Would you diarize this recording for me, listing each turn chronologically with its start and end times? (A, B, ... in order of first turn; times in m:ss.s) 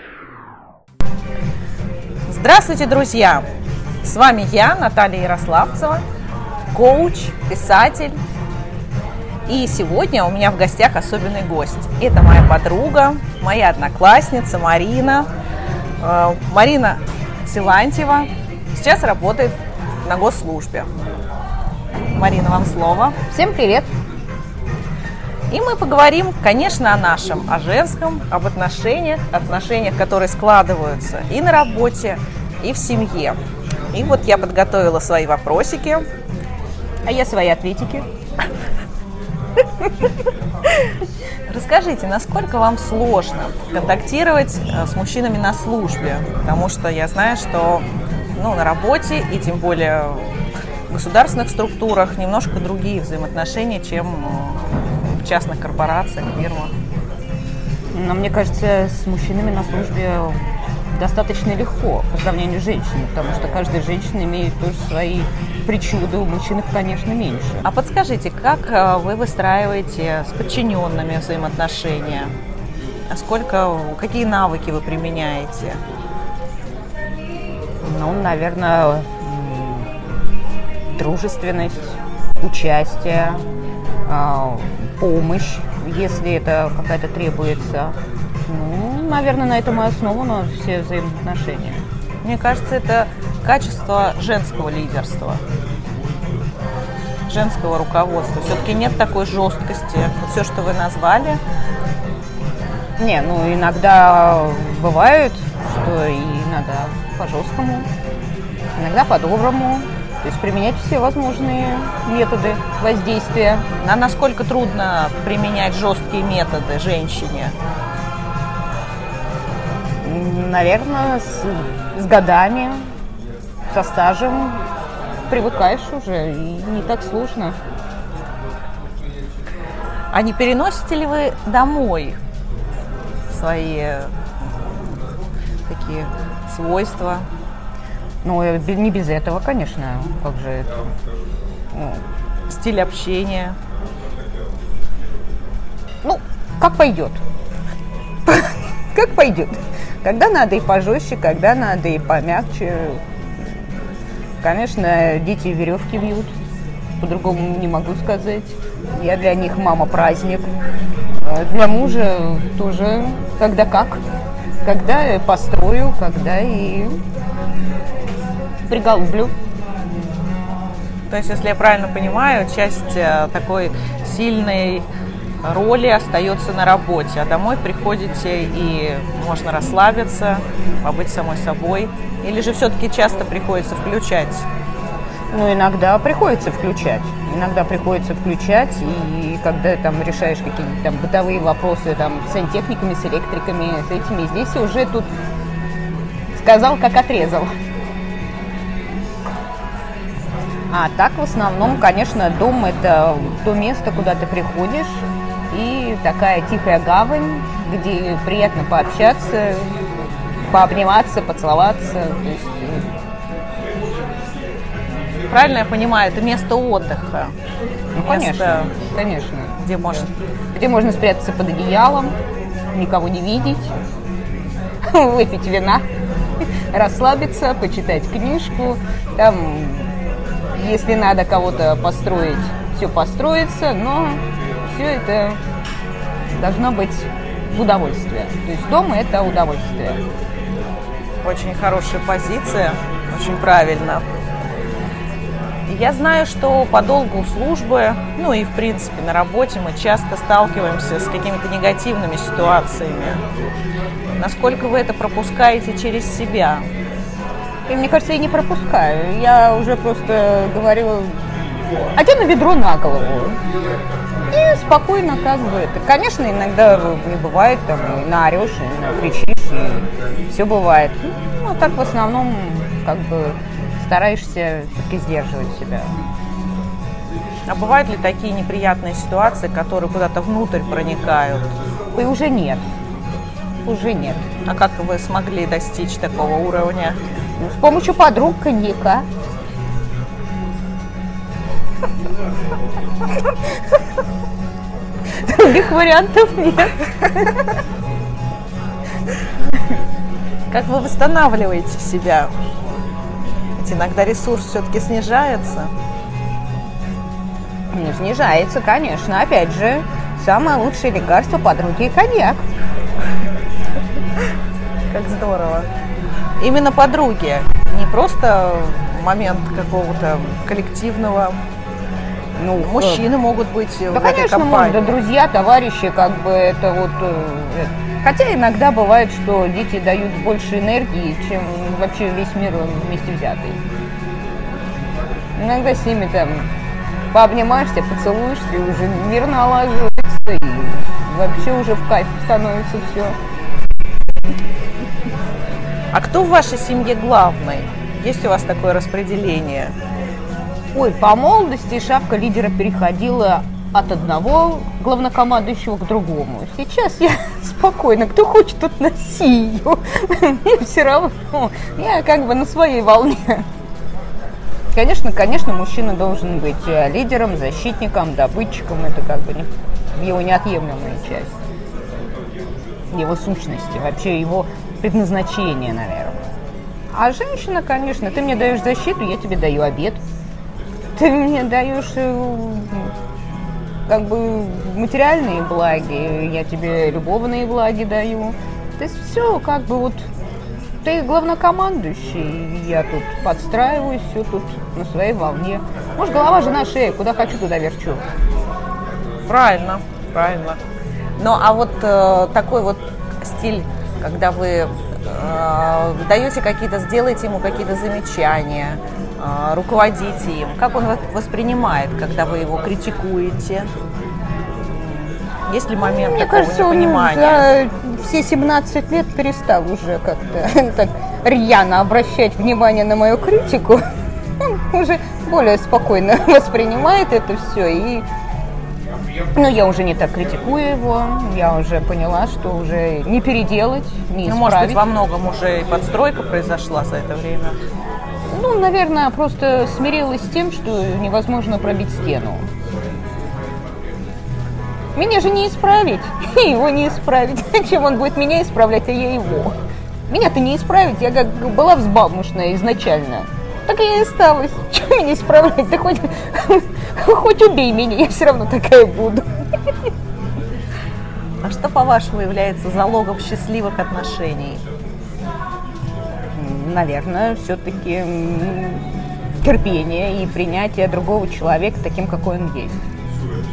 0:02.3-0:03.4 A
0:04.0-0:06.0 A
0:06.7-0:08.2 A
0:09.5-0:15.3 A
0:16.0-0:20.9 A
0:22.1-0:23.2 A
0:23.3-0:23.9 B
0:25.5-0:33.4 A
0:33.9-0:36.0 A
0:37.0-0:38.0 B
0:41.5-0:50.3 A
0:50.9-0:56.7 A
0:57.9-1:00.4 B
1:00.9-1:07.6 B
1:07.6-1:12.3 A
1:13.1-1:15.8 A
1:17.8-1:19.9 B
1:20.9-1:23.4 B
1:24.1-1:28.0 B
1:28.5-1:31.8 B
1:32.2-1:35.4 A
1:37.3-1:41.4 A
1:43.0-1:47.9 B
1:48.8-1:53.7 B
1:53.8-1:57.6 A
2:00.0-2:02.8 B
2:03.7-2:04.6 B
2:05.3-2:07.6 B
2:10.1-2:12.2 A
2:13.3-2:14.6 A
2:15.7-2:17.2 A
2:18.2-2:20.9 B
2:21.7-2:22.0 B
2:22.5-2:23.6 A
2:26.0-2:27.2 B
2:28.2-2:33.0 B
2:34.4-2:36.3 B
2:37.0-2:40.5 B
2:41.2-2:44.0 B
2:44.6-2:47.0 B
2:48.7-2:49.3 B
2:51.1-2:54.9 A
2:55.4-3:04.4 A
3:05.3-3:15.1 B
3:16.3-3:17.5 B
3:20.7-3:29.8 B
3:30.5-3:32.8 B
3:35.3-3:37.3 A
3:37.9-3:39.6 B
3:38.0-3:38.7 A
3:39.6-3:40.1 A
3:40.5-3:42.2 B
3:42.7-3:43.7 B
3:44.8-3:45.8 B
3:46.7-3:49.9 B
3:50.5-3:55.4 B
3:56.3-4:00.0 B
4:01.2-4:04.0 A
4:05.7-4:13.2 A
4:14.2-4:16.6 A
4:17.7-4:21.2 B
4:22.0-4:23.4 B
4:24.3-4:36.0 B
4:37.4-4:41.5 A
4:41.9-4:42.6 B
4:43.6-4:44.2 B
4:44.4-4:47.0 A
4:47.4-4:49.0 B
4:55.2-4:57.2 B
5:00.5-5:02.3 A
5:03.6-5:05.7 A
5:07.7-5:12.4 B
5:14.9-5:15.7 A
5:16.4-5:21.4 A
5:22.4-5:23.1 B
5:22.6-5:25.0 A
5:23.9-5:33.6 B
5:35.4-5:36.5 B
5:37.1-5:43.2 B
5:45.9-5:49.7 A
5:50.7-6:03.4 B
6:04.7-6:11.3 B
6:12.9-6:16.2 B
6:16.9-6:20.0 B
6:20.9-6:22.9 B
6:23.9-6:30.0 B
6:30.8-6:38.0 B
6:39.3-6:40.6 A
6:41.2-6:53.7 A
6:54.7-6:57.5 A
6:55.9-7:03.8 B
7:04.4-7:08.0 B
7:09.3-7:14.8 B
7:14.2-7:17.6 A
7:18.3-7:22.4 B
7:24.9-7:29.6 B
7:30.1-7:39.2 B
7:41.4-7:44.6 A
7:46.3-7:52.8 B